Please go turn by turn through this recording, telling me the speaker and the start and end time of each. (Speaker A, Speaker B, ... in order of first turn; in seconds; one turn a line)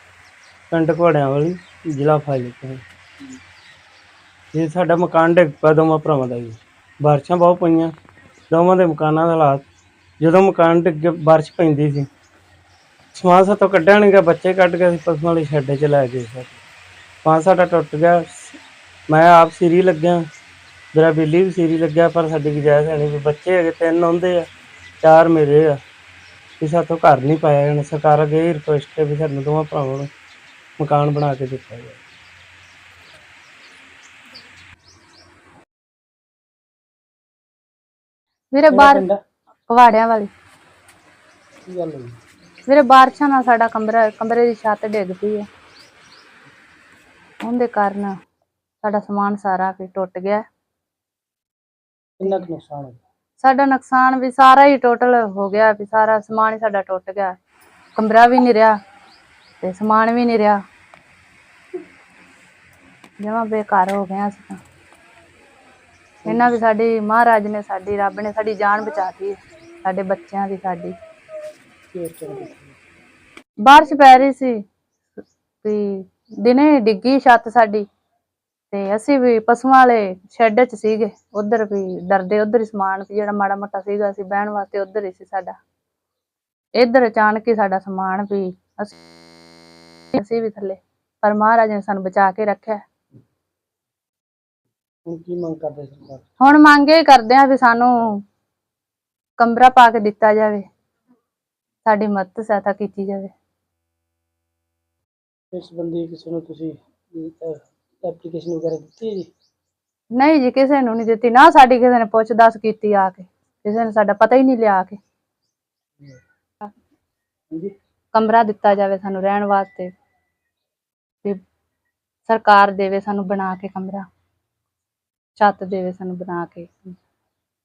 Speaker A: 0.7-2.8
Speaker A: 4.5-7.9
Speaker A: 8.5-9.6
Speaker A: 10.2-12.1
Speaker A: 13.1-16.6
Speaker A: 17.2-18.6
Speaker A: 19.1-20.2
Speaker A: 20.9-24.5
Speaker A: 25.0-25.8
Speaker A: 26.6-30.1
Speaker A: 30.8-32.0
Speaker B: 38.5-39.0
Speaker C: 38.7-39.2
Speaker B: 39.7-40.3
Speaker C: 41.7-42.2
Speaker B: 42.7-45.5
Speaker B: 47.4-48.1
Speaker B: 48.8-50.4
Speaker C: 52.2-53.0
Speaker B: 53.4-57.4
Speaker B: 58.0-58.8
Speaker B: 59.6-60.6
Speaker B: 63.2-64.6
Speaker C: 66.2-66.6
Speaker B: 66.3-71.0
Speaker C: 71.9-72.8
Speaker B: 73.6-74.6
Speaker B: 75.6-77.8
Speaker B: 78.7-85.6
Speaker B: 86.8-88.9
Speaker B: 90.1-92.8
Speaker C: 95.1-96.3
Speaker B: 96.4-98.2
Speaker B: 99.4-100.7
Speaker B: 101.9-103.3
Speaker C: 105.5-109.3
Speaker B: 110.1-115.0
Speaker B: 118.1-119.9
Speaker B: 122.3-124.0
Speaker B: 125.4-127.0